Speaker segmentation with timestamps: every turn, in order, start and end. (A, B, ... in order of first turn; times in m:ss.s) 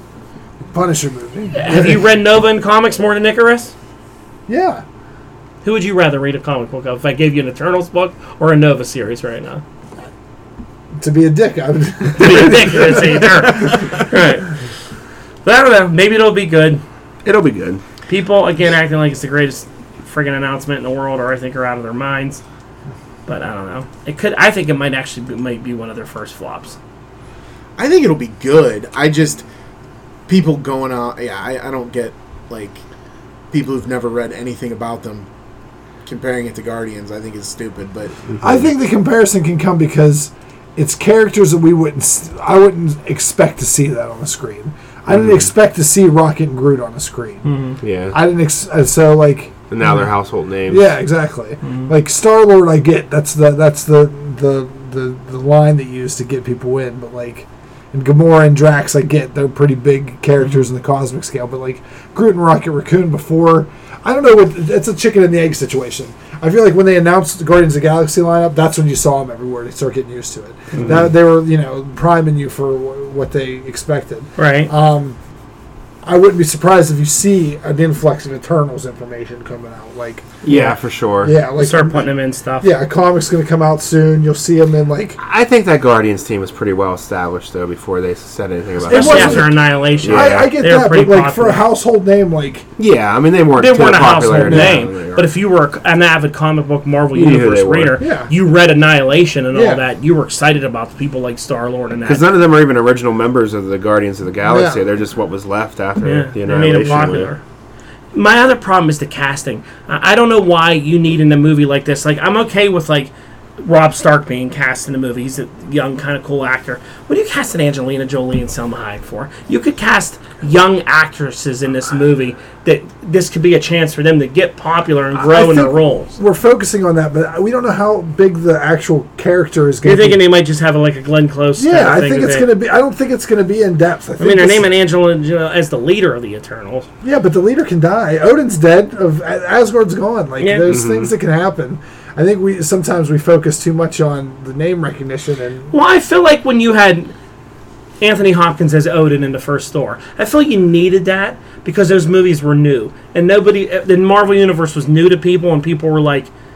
0:00.7-0:02.0 A
0:01.5-0:03.7 B
0:04.5-0:04.8 A
0:05.6-0:09.6 B
0:11.0-0:14.0 A
0:12.2-0:14.5 B
0:15.4-0:16.8 B
0:17.2-0:17.8 C
0:18.1-0:22.4 B
0:23.2-0:26.8 B
0:27.8-0:29.4 D
0:30.3-0:32.8 D
0:33.5-0:35.3 D
0:36.0-0:38.2 D
0:38.4-0:47.5 A
0:47.4-0:47.8 B
0:47.8-0:48.2 C
0:48.1-0:50.0 A
0:49.7-0:50.9 C
0:50.7-1:15.2 A
0:51.6-0:51.9 B
1:10.8-1:11.1 C
1:14.4-1:14.7 B
1:16.0-1:25.2 A
1:20.4-1:21.3 C
1:21.6-1:22.7 B
1:25.2-1:30.5 C
1:28.9-1:32.6 A
1:28.9-1:31.6 B
1:32.8-1:35.3 C
1:33.6-1:42.3 B
1:34.4-1:34.8 A
1:37.1-1:38.0 C
1:38.0-1:38.3 A
1:39.5-1:39.8 A
1:42.1-1:47.3 C
1:44.5-1:44.8 A
1:46.0-1:47.4 B
1:48.1-2:06.1 B
2:05.1-2:10.2 A
2:09.8-2:12.5 B
2:11.6-2:14.7 A
2:14.2-2:16.9 B
2:17.0-2:25.7 A
2:20.4-2:20.7 B
2:20.7-2:21.1 C
2:25.7-2:27.1 B
2:28.0-2:36.3 B